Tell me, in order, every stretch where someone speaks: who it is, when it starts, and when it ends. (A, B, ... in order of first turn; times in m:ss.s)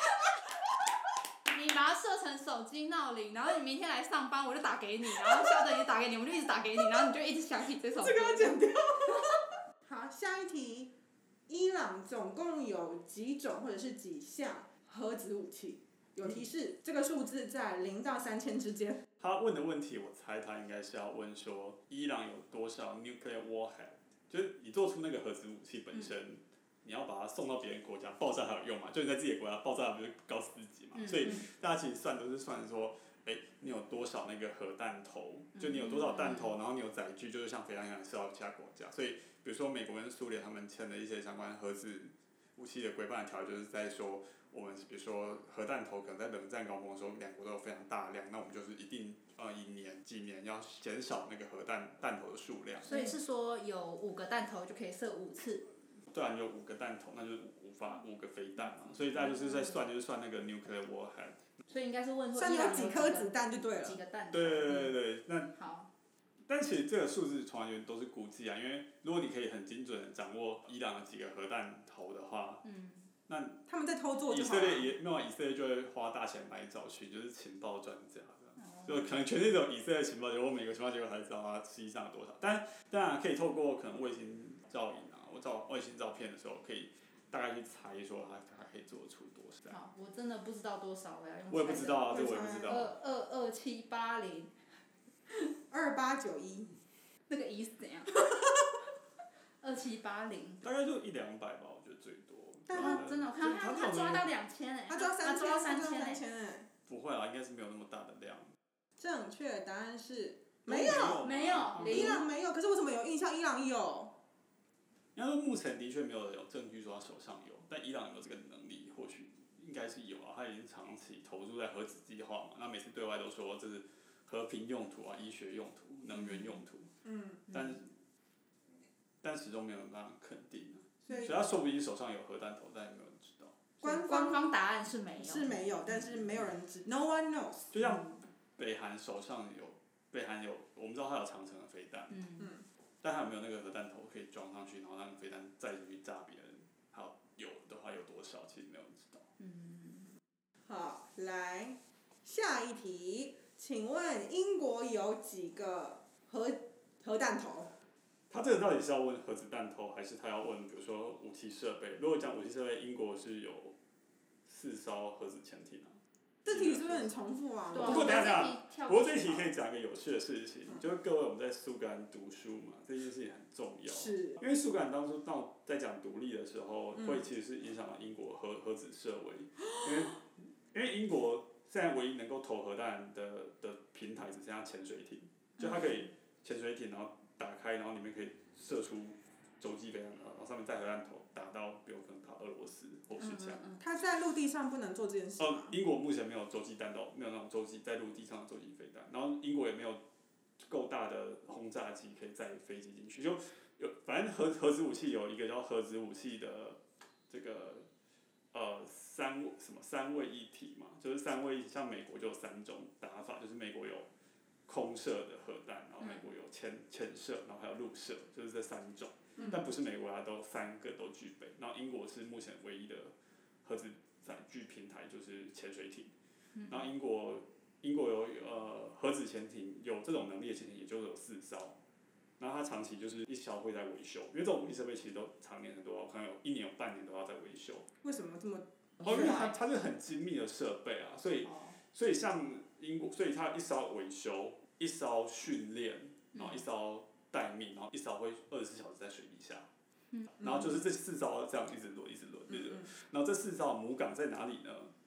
0:01.5-0:08.6 A
0:08.0-0:10.9 B
0:11.5-0:19.0 B
0:19.2-0:52.9 C
0:31.0-0:31.4 A
0:35.6-0:36.5 A
0:52.8-0:55.7 A
0:56.1-1:01.4 C
0:59.2-0:59.7 A
1:01.7-1:05.0 A
1:02.3-1:04.0 B
1:04.3-1:05.5 C
1:05.5-1:05.9 A
1:06.5-1:12.6 C
1:12.6-1:13.1 A
1:13.3-1:13.6 C
1:13.7-1:14.9 B
1:14.3-1:29.7 C
1:18.6-1:19.1 A
1:29.7-1:32.1 A
1:31.5-1:32.9 C
1:32.1-1:32.8 B
1:32.6-1:34.5 A
1:35.7-1:36.8 B
1:37.3-1:38.4 A
1:39.6-1:40.6 A
1:40.6-1:44.3 C
1:42.7-1:43.0 B
1:42.7-1:46.2 A
1:44.9-1:46.7 B
1:46.9-1:48.5 C
1:49.0-1:51.2 B
1:50.6-1:52.2 C
1:51.2-1:52.2 A
1:51.8-1:54.1 B
1:55.2-2:06.9 C
2:06.2-2:06.5 A
2:07.0-2:07.4 B
2:07.5-2:07.9 C
2:09.2-2:13.6 C
2:13.8-2:14.4 B
2:13.8-2:15.6 A
2:15.2-2:17.8 B
2:17.7-2:22.2 C
2:22.1-2:22.5 A
2:23.0-2:29.2 C
2:29.4-2:30.1 A
2:30.6-2:37.7 B
2:38.3-2:43.7 C
2:44.4-2:47.2 C
2:46.4-2:48.3 B
2:47.7-2:49.5 A
2:47.7-3:13.6 C
2:53.9-2:54.4 B
3:13.2-3:13.8 A
3:13.8-3:15.7 B
3:15.4-3:20.0 C
3:20.6-3:27.9 C
3:28.5-3:34.1 C
3:34.7-3:43.1 C
3:43.6-3:46.1 C
3:46.7-3:51.8 C
3:52.4-3:57.9 C
3:58.0-3:59.5 B
3:59.0-3:59.5 A
3:59.0-4:09.7 C
4:01.4-4:01.8 A
4:10.4-4:14.9 C